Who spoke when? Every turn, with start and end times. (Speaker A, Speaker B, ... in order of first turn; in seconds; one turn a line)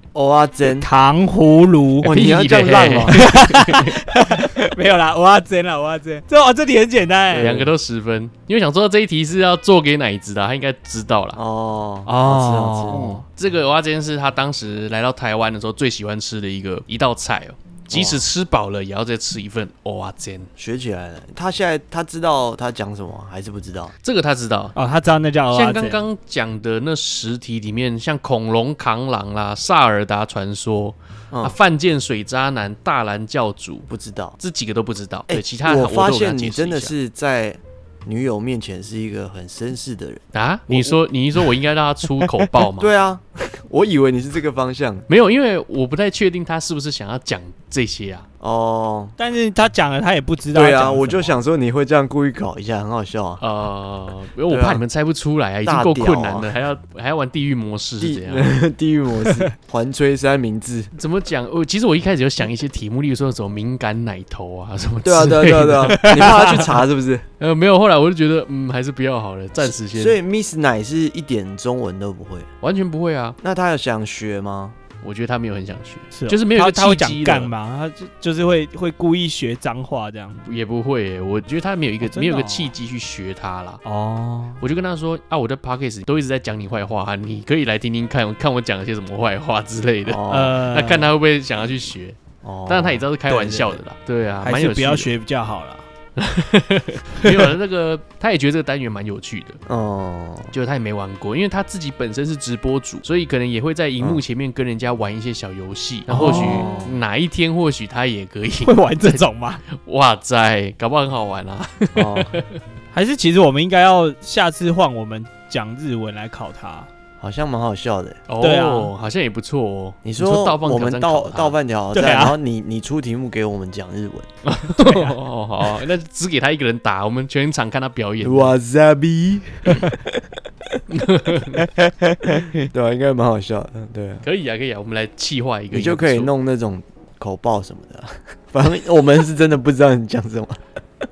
Speaker A: 0.1-0.9
Speaker B: 0.7-2.1
Speaker A: 2.0-3.4
Speaker C: 2.1-3.9
Speaker B: 3.1-7.6
Speaker A: 7.3-7.7
Speaker C: 7.3-11.4
Speaker A: 11.3-13.1
Speaker B: 12.1-13.2
Speaker C: 12.9-20.5
Speaker A: 17.9-18.2
Speaker A: 20.6-23.9
Speaker C: 24.0-24.7
Speaker B: 24.7-26.0
Speaker C: 25.5-33.9
Speaker A: 31.3-31.6
Speaker A: 33.9-34.4
Speaker C: 34.4-36.9
Speaker A: 35.3-41.0
Speaker C: 40.3-42.9
Speaker A: 42.4-45.0
Speaker C: 45.1-48.2
Speaker A: 48.4-49.1
Speaker B: 49.2-51.3
Speaker A: 50.5-53.4
Speaker C: 53.4-58.5
Speaker A: 54.5-54.8
Speaker A: 55.6-56.5
Speaker A: 58.0-60.9
Speaker C: 60.9-66.5
Speaker A: 65.0-67.2
Speaker B: 66.0-66.6
Speaker C: 67.4-70.2
Speaker A: 69.6-72.5
Speaker C: 72.6-73.4
Speaker A: 73.4-74.8
Speaker C: 75.0-77.5
Speaker B: 76.1-80.4
Speaker C: 80.4-83.8
Speaker B: 82.0-82.7
Speaker B: 83.8-84.6
Speaker C: 84.6-95.1
Speaker A: 90.0-90.7
Speaker B: 90.3-91.1
Speaker A: 92.4-93.0
Speaker B: 93.3-93.8
Speaker B: 94.4-95.8
Speaker C: 96.2-99.6
Speaker A: 99.7-100.5
Speaker C: 100.5-112.5
Speaker B: 106.1-106.7
Speaker A: 106.1-107.0
Speaker B: 108.6-109.6
Speaker A: 111.9-112.3
Speaker B: 112.9-116.9
Speaker A: 117.2-118.2
Speaker C: 118.3-121.6
Speaker B: 118.4-118.9
Speaker A: 120.0-124.3
Speaker B: 121.9-122.3
Speaker C: 124.4-128.5
Speaker B: 124.8-125.1
Speaker A: 128.2-130.8
Speaker C: 130.9-131.7
Speaker A: 131.7-134.2
Speaker C: 134.2-136.3
Speaker A: 135.7-140.6